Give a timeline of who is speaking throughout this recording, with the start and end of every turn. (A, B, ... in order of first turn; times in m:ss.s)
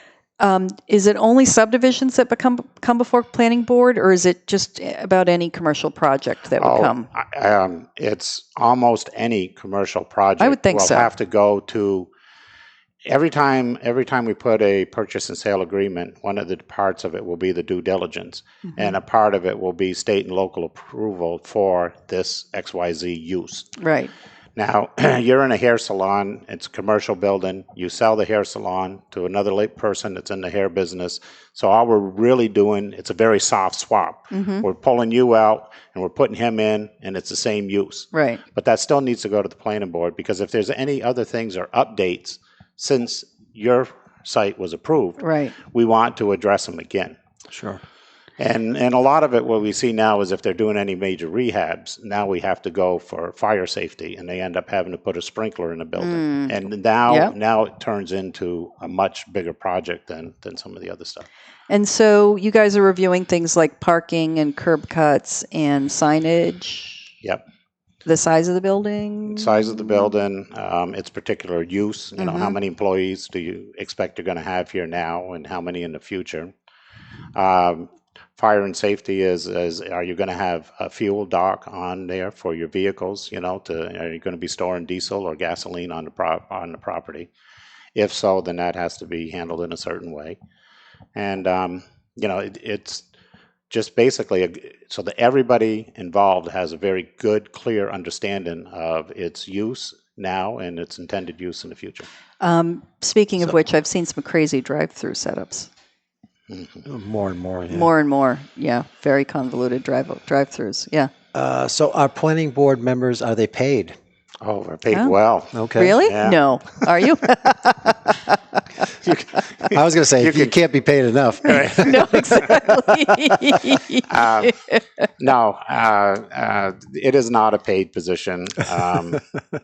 0:00.4-0:07.1 A
0:06.6-0:12.1 B
0:10.4-0:11.1 A
0:13.1-0:23.7 B
0:18.7-0:19.0 A
0:23.8-0:24.1 A
0:24.6-0:47.2 B
0:34.3-0:34.7 A
0:38.1-0:38.4 A
0:45.2-0:45.6 A
0:47.5-0:47.8 C
0:48.4-1:01.3 B
0:56.0-0:57.3 A
1:01.7-1:07.1 A
1:08.0-1:10.1 A
1:09.3-1:16.5 B
1:12.2-1:12.6 A
1:17.4-1:27.3 B
1:28.0-1:30.4 B
1:31.2-1:33.0 B
1:33.7-1:42.1 B
1:42.4-1:45.7 A
1:46.5-1:46.8 B
1:46.9-1:47.9 C
1:47.7-1:51.1 A
1:51.3-1:54.0 C
1:54.4-1:56.8 B
1:55.5-1:56.0 C
1:55.8-1:58.6 A
1:59.1-2:00.5 B
1:59.7-2:02.3 C
2:01.4-2:01.9 B
2:01.5-2:04.8 A
2:04.1-2:04.5 B
2:05.2-2:09.2 B